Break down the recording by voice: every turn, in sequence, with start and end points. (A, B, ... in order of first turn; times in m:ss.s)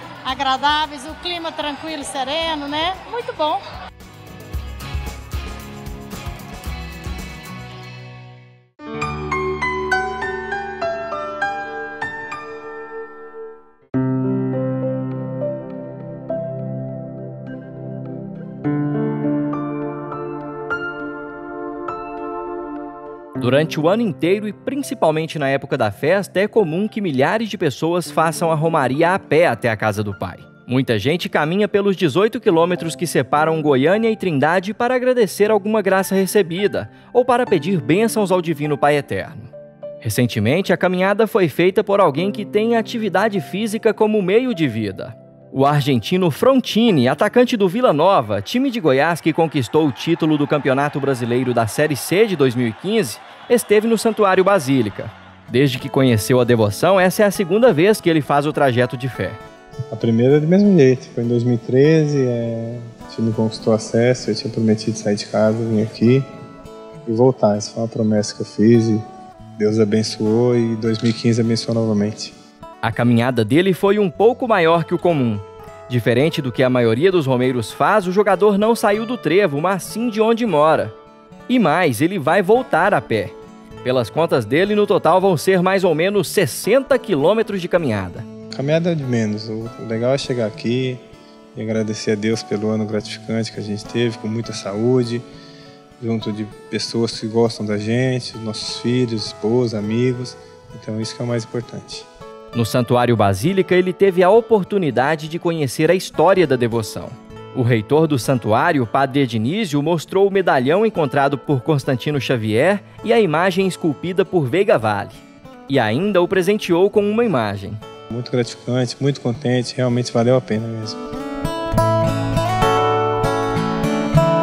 0:00.2-0:03.6 A
0:23.4-0:39.5 B
0:40.0-0:59.4 B
0:59.9-1:06.3 C
1:07.0-1:09.0 C
1:09.6-1:12.3 C
1:12.8-1:20.9 B
1:21.5-1:28.2 B
1:28.5-1:31.0 C
1:31.5-1:35.2 C
1:36.0-1:42.1 C
1:42.5-1:57.8 B
1:58.1-2:01.0 C